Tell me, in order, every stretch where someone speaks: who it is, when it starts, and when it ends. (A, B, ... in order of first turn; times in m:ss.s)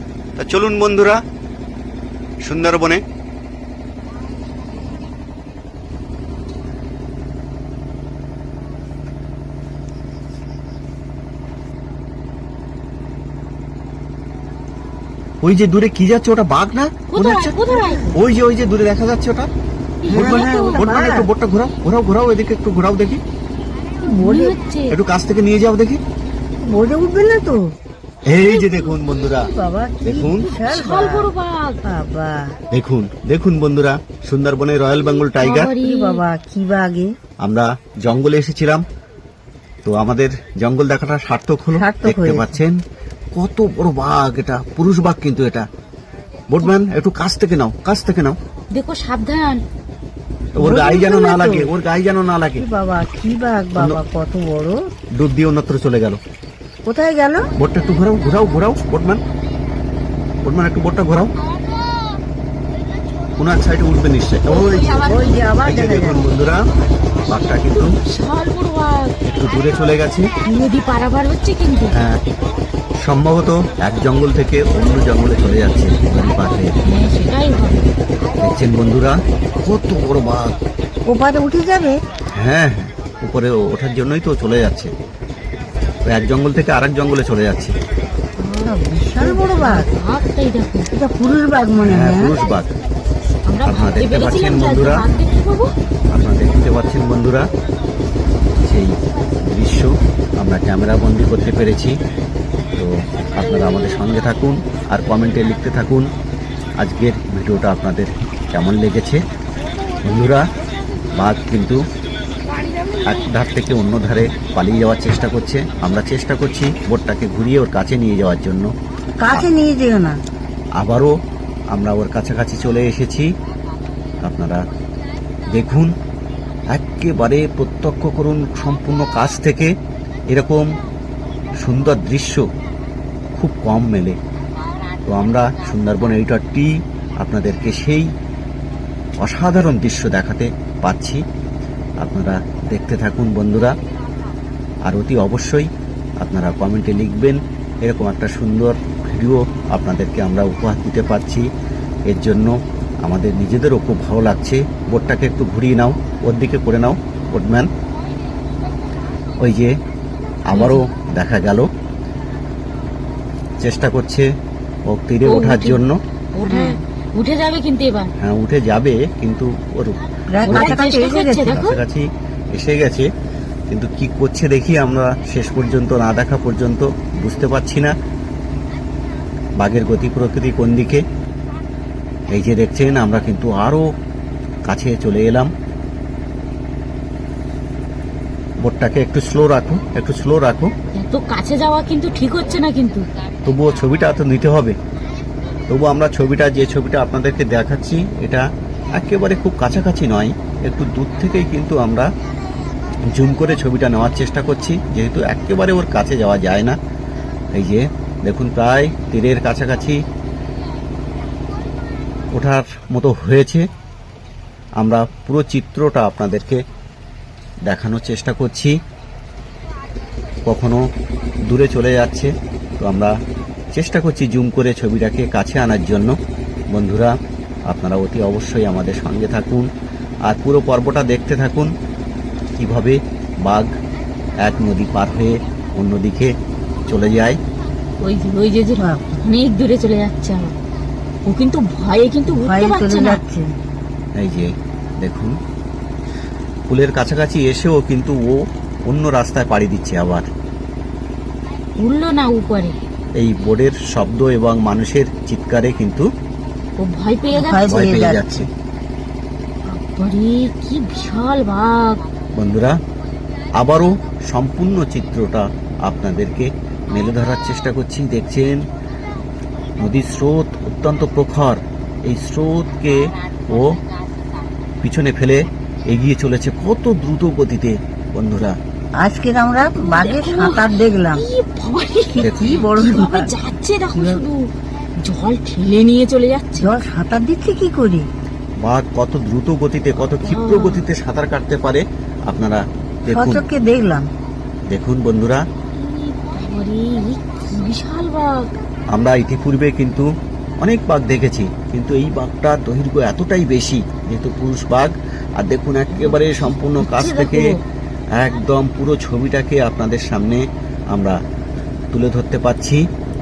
0:00.4-0:01.2 A
0:02.4-0:03.0 A
0:15.4-0:17.5 A
0:17.1-0:18.1 B
0:17.7-0:18.1 C
0:18.1-0:19.5 A
0:20.0-0:20.8 B
0:20.1-0:21.3 C
0:20.1-0:23.2 A
0:24.0-0:25.0 B
0:24.1-0:24.6 C
0:24.9-0:26.0 A
0:26.6-0:27.8 C
0:28.2-0:29.5 A
0:28.6-0:29.0 B
0:29.3-0:31.3 C
0:30.0-0:30.5 A
0:30.3-0:31.8 B
0:31.8-0:32.5 C
0:32.7-0:35.7 A
0:35.4-0:36.2 B
0:35.8-0:37.2 C
0:37.4-0:38.8 A
0:39.8-0:42.8 A
0:41.8-0:42.6 C
0:43.3-0:45.7 A
0:46.5-0:48.4 A
0:48.7-0:49.6 B
0:50.5-0:52.6 A
0:50.6-0:51.7 C
0:52.6-0:54.9 C
0:53.7-0:54.0 A
0:55.2-0:56.2 A
0:56.8-0:57.5 C
0:57.5-0:59.2 A
1:00.4-1:01.3 A
1:03.4-1:06.7 A
1:04.6-1:05.3 B
1:05.0-1:06.2 C
1:07.3-1:08.0 A
1:07.7-1:09.1 B
1:09.2-1:10.3 A
1:10.4-1:12.0 B
1:11.9-1:12.2 A
1:13.0-1:16.8 A
1:16.8-1:17.8 B
1:18.4-1:20.6 A
1:21.0-1:22.0 C
1:22.3-1:24.9 A
1:26.0-1:27.8 A
1:28.4-1:30.9 B
1:28.6-1:29.9 C
1:30.9-1:32.3 C
1:31.8-1:32.7 A
1:33.5-1:35.7 B
1:33.6-1:35.0 A
1:36.1-1:37.5 A
1:38.6-1:42.0 A
1:42.7-1:46.1 A
1:46.8-1:49.2 A
1:50.0-1:50.5 A
1:51.1-1:51.8 A
1:53.0-1:58.7 A
1:59.2-2:00.2 C
2:00.8-2:01.2 A
2:01.7-2:03.3 A
2:04.2-2:04.7 A
2:05.5-2:05.9 A
2:06.7-2:09.8 A
2:10.3-2:10.8 A
2:11.6-2:12.5 A
2:13.3-2:14.2 A
2:15.0-2:18.1 A
2:19.2-2:21.2 A
2:22.0-2:23.8 A
2:24.8-2:31.5 A
2:32.1-2:37.7 A
2:39.4-2:39.8 A
2:40.5-2:41.7 A
2:43.6-2:44.3 A
2:44.9-2:46.0 A
2:45.2-2:45.8 B
2:46.3-2:48.1 B
2:46.5-2:46.8 C
2:48.2-2:50.8 A
2:50.3-2:51.6 C
2:50.4-2:51.8 B
2:51.4-2:53.1 A
2:53.7-2:57.9 A
2:59.6-3:01.0 A
3:02.3-3:03.9 A
3:04.7-3:05.5 A
3:08.6-3:10.7 A
3:10.9-3:13.1 B
3:13.4-3:14.8 A
3:15.7-3:22.1 A
3:23.0-3:26.8 A
3:27.5-3:30.0 A
3:32.3-3:33.7 A
3:34.8-3:36.6 A
3:37.6-3:38.8 A
3:40.4-3:40.8 A
3:41.5-3:43.2 A
3:43.7-3:46.2 A
3:46.7-3:49.7 A
3:50.3-3:51.7 A
3:52.6-3:53.7 A
3:54.4-3:56.3 A
3:56.8-3:57.4 A
3:58.0-4:00.5 B
3:58.8-3:59.1 C
4:01.2-4:03.2 B
4:02.3-4:03.5 C
4:04.2-4:05.4 A
4:06.7-4:10.3 A
4:11.8-4:12.8 B
4:13.2-4:16.1 A
4:16.8-4:17.7 B
4:17.3-4:18.2 C
4:17.7-4:18.5 A
4:19.7-4:22.0 B
4:22.3-4:22.8 A
4:23.5-4:28.7 A
4:29.8-4:33.8 A
4:34.8-4:38.6 A
4:39.0-4:41.2 C
4:39.6-4:46.8 B
4:42.2-4:42.6 A
4:42.2-4:43.3 C
4:44.0-4:44.2 C
4:46.6-4:48.1 C
4:48.6-4:53.4 A
4:50.2-4:50.9 B
4:53.1-4:54.1 C
4:54.7-4:55.4 A
4:55.7-4:58.5 B
4:58.9-5:07.6 A
5:05.9-5:07.6 B
5:08.2-5:11.2 A
5:11.9-5:12.8 A